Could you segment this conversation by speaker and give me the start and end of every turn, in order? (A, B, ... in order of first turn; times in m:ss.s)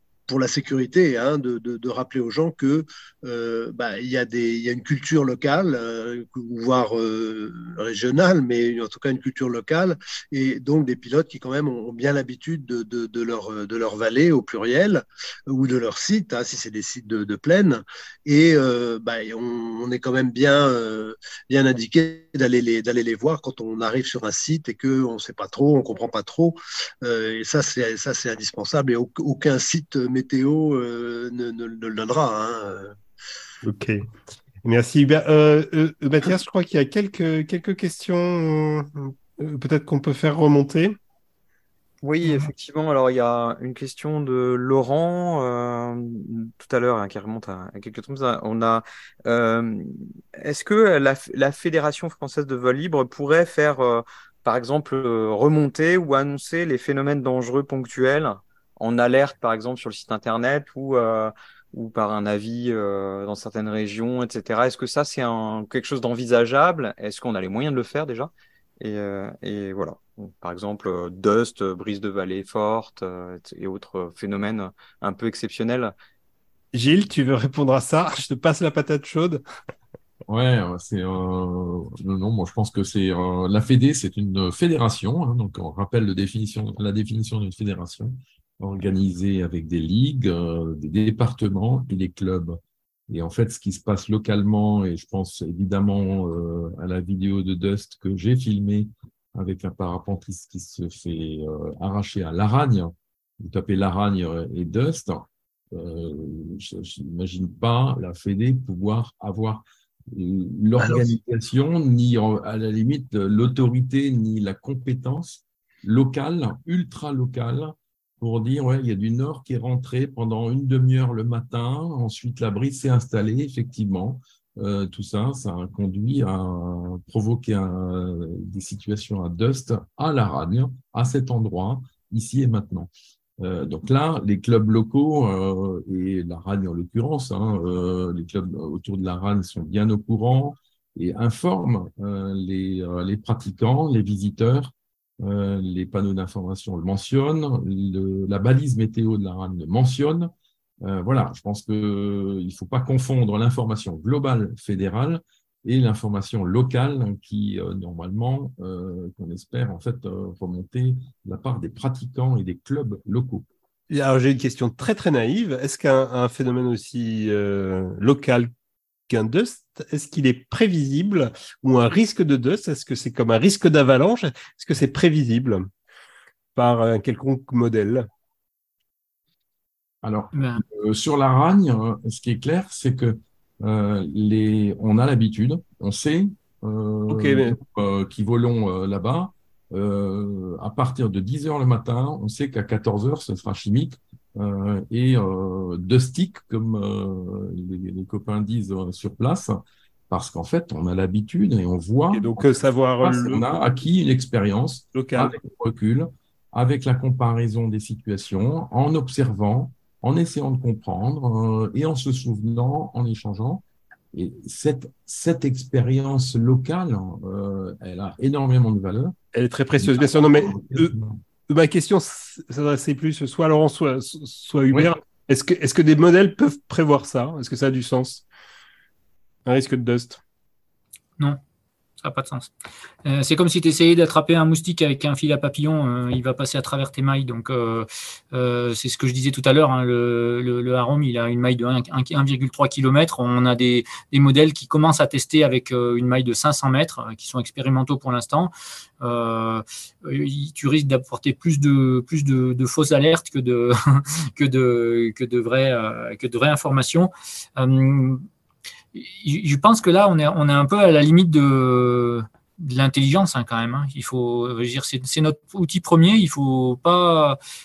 0:00.3-0:33.0 A
0:33.6-0:34.1 B
0:34.6-0:41.0 B
0:42.0-1:15.9 C
0:42.2-0:42.5 D
1:16.7-1:19.4 B
1:20.3-2:30.3 E
1:50.8-1:51.1 A
2:30.8-2:43.5 E
2:43.9-2:48.5 B
2:49.1-2:55.6 B
2:56.6-2:58.1 B
3:00.0-3:22.4 E
3:00.3-3:00.6 D
3:07.1-3:07.6 B
3:22.1-3:23.4 B
3:23.0-3:39.2 E
3:24.9-3:25.4 B
3:39.3-3:40.9 B
3:39.8-3:41.2 E
3:41.5-3:48.3 B
3:49.5-3:50.2 B
3:52.0-3:52.5 D
3:53.0-4:18.2 D
4:19.0-4:27.4 D